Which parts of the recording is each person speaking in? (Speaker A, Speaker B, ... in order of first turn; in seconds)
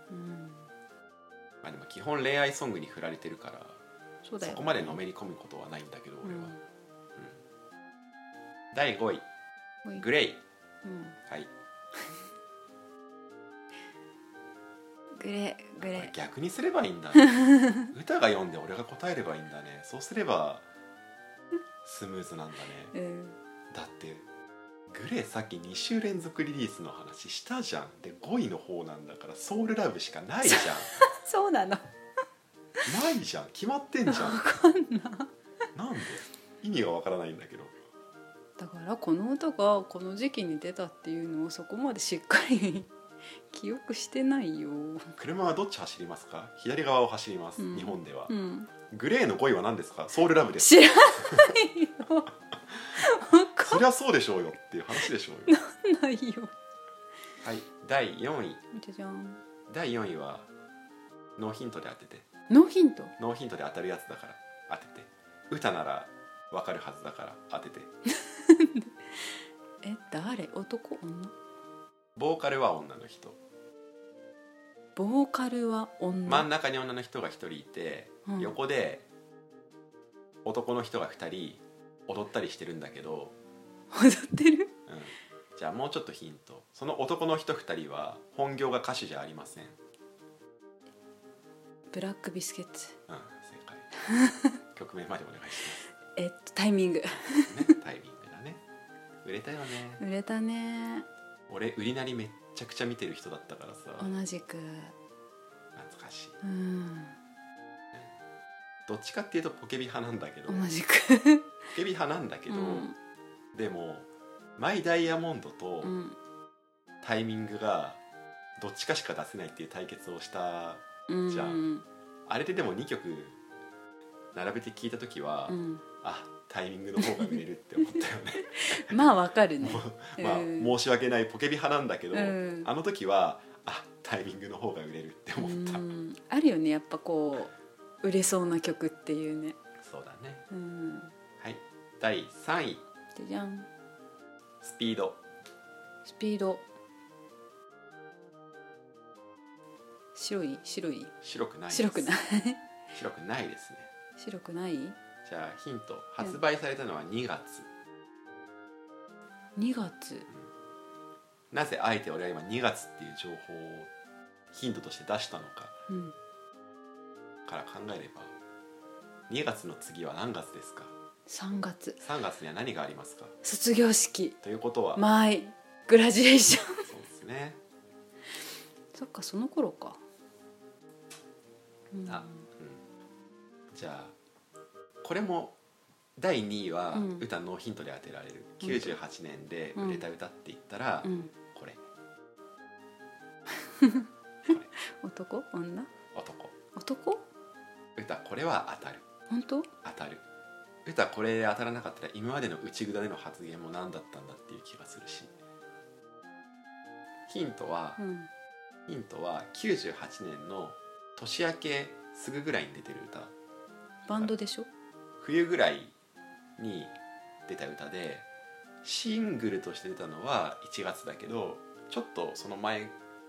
Speaker A: 0.1-0.7, 4.2-5.0, 6.2-6.6, 10.8-11.2, 15.1-16.1, 17.2-17.9, 22.9-23.4, 30.4-31.9, 34.1-35.3, 38.6-42.9, 43.5-45.1, 47.6-48.7, 50.6-52.3, 52.9-53.8, 55.5-56.5, 58.7-59.4, 62.5-63.1, 68.2-68.9, 69.8-71.3, 75.0-76.5, 78.2-78.6, 83.9-84.7, 91.9-93.0, 94.0-94.5, 96.1-97.7, 100.0-101.1, 104.0-104.9, 106.4-107.2, 110.5-111.5, 112.5-112.9, 115.8-116.2, 121.1-121.8, 125.5-125.8, 127.0-127.4, 127.9-130.8, 132.1-132.7, 135.4-139.6, 140.5-141.1, 143.1-143.7, 146.0-146.6, 150.1-151.1, 151.7-152.6, 154.2-155.0, 159.6-160.3, 165.9-166.1, 171.3-172.0, 173.4-174.3, 174.9-176.9, 178.9-180.0, 181.9-182.5, 186.9-187.2, 188.6-189.0, 189.8-190.0, 191.0-191.3, 193.6-195.9, 196.7-197.2, 199.3-199.7, 208.0-208.3, 214.1-214.7
Speaker B: 1.6-3.8, 4.4-6.5, 8.7-9.2, 10.0-10.4, 15.8-20.6, 21.8-22.9, 23.7-24.2, 24.9-30.9, 32.9-34.4, 35.7-37.8, 45.1-48.3, 48.9-51.5, 53.6-55.6, 57.4-58.6, 59.7-60.5, 61.4-62.2, 63.2-67.9, 72.2-73.4, 76.2-79.0, 80.4-83.3, 84.9-89.8, 93.1-93.9, 94.7-95.8, 97.5-98.6, 99.2-100.0, 101.5-104.1, 105.7-106.3, 108.8-110.7, 111.7-112.9, 113.5-115.9, 117.0-118.0, 118.6-121.7, 122.2-123.4, 124.3-129.0, 129.6-135.8, 139.8-140.4, 141.4-142.8, 144.6-145.2, 151.2-152.1, 152.9-153.9, 155.2-157.7, 161.5-163.9, 164.5-165.8, 167.4-168.3, 169.3-170.9, 172.0-173.3, 174.4-175.0, 176.9-177.6, 182.1-182.8, 183.7-184.1, 185.0-185.6, 186.2-191.8, 196.1-196.5, 197.9-199.0, 199.8-200.2, 200.8-205.3, 207.3-208.0, 208.9-213.3, 215.2-215.9, 216.6-216.9, 217.5-218.2, 218.8-222.9